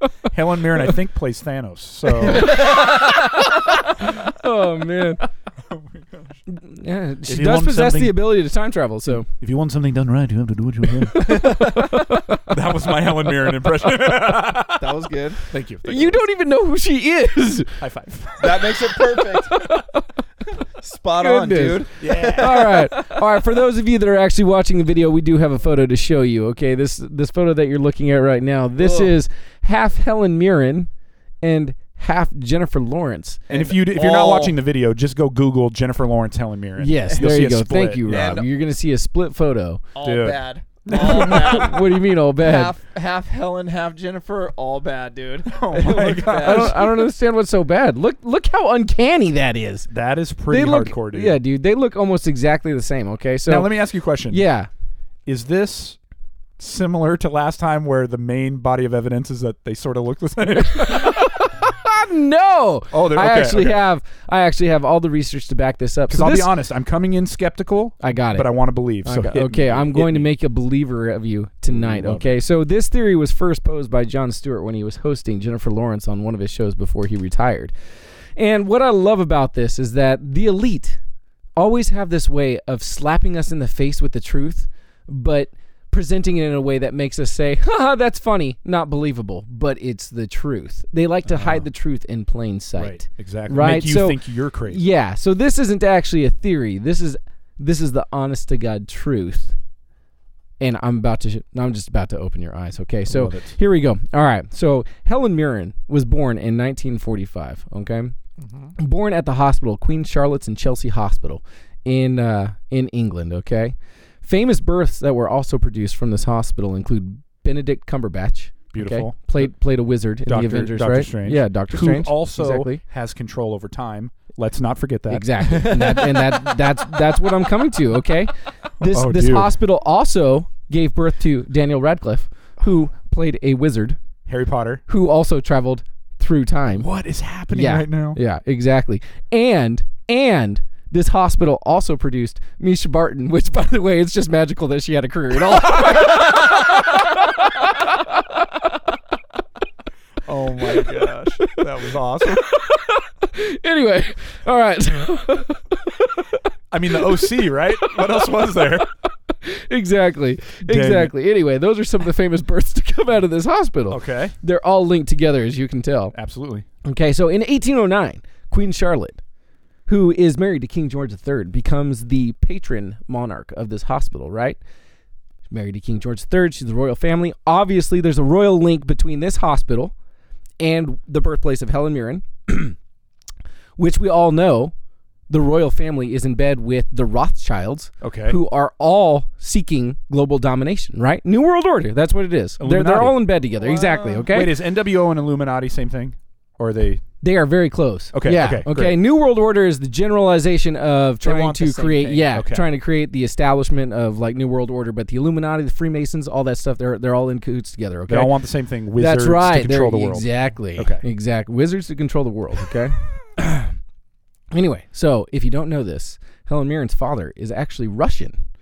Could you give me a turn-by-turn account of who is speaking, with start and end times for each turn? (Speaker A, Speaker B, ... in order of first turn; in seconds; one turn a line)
Speaker A: 0.3-2.6
Speaker B: 2.2-3.5
Speaker C: 2.4-5.2
Speaker A: 5.7-6.4
Speaker C: 6.5-9.3
Speaker A: 7.3-8.2
Speaker A: 9.1-11.5
Speaker C: 11.1-12.5
Speaker B: 11.4-11.8
Speaker A: 12.5-14.9
Speaker B: 14.8-15.4
Speaker A: 15.5-16.2
Speaker C: 15.8-17.8
Speaker A: 17.8-18.8
Speaker B: 18.4-19.6
Speaker C: 19.5-20.0
Speaker B: 20.8-23.2
Speaker C: 21.2-30.9
Speaker A: 22.0-22.9
Speaker B: 28.8-29.1
Speaker C: 31.4-33.4
Speaker B: 33.5-34.6
Speaker A: 33.5-38.4
Speaker C: 36.8-39.8
Speaker B: 38.0-38.5
Speaker B: 40.0-46.8
Speaker A: 40.0-41.8
Speaker C: 40.9-42.7
Speaker A: 45.5-46.9
Speaker C: 46.3-49.9
Speaker A: 49.9-51.4
Speaker C: 50.5-54.7
Speaker A: 53.5-54.4
Speaker A: 55.3-56.0
Speaker A: 56.6-61.4
Speaker C: 60.7-66.5
Speaker A: 62.9-63.8
Speaker A: 66.1-70.3
Speaker C: 68.0-77.7
Speaker A: 71.7-72.4
Speaker C: 78.4-81.0
Speaker C: 81.6-99.6
Speaker A: 91.3-91.7
Speaker A: 92.8-94.8
Speaker C: 100.6-108.2
Speaker A: 103.1-103.6
Speaker C: 108.8-122.8
Speaker A: 118.7-119.5
Speaker A: 120.2-125.8
Speaker C: 125.1-134.0
Speaker B: 125.4-126.8
Speaker A: 128.8-129.6
Speaker A: 134.3-134.8
Speaker C: 134.9-136.9
Speaker A: 136.7-138.2
Speaker C: 137.5-148.3
Speaker A: 150.2-152.5
Speaker C: 150.6-151.6
Speaker C: 152.3-156.4
Speaker A: 156.7-158.9
Speaker C: 156.9-157.9
Speaker C: 159.3-166.2
Speaker A: 160.6-161.1
Speaker A: 163.9-164.3
Speaker A: 166.1-166.7
Speaker C: 166.8-169.2
Speaker C: 169.9-174.6
Speaker C: 175.5-179.9
Speaker C: 180.6-182.8
Speaker C: 183.8-184.7
Speaker C: 185.3-194.6
Speaker A: 188.0-188.4
Speaker A: 192.6-193.3
Speaker B: 193.6-194.3
Speaker A: 194.3-197.0
Speaker C: 197.2-208.3
Speaker A: 198.1-199.0
Speaker B: 201.2-202.3
Speaker A: 202.3-202.7
Speaker A: 208.1-211.0
Speaker C: 209.0-213.7
Speaker C: 214.5-218.3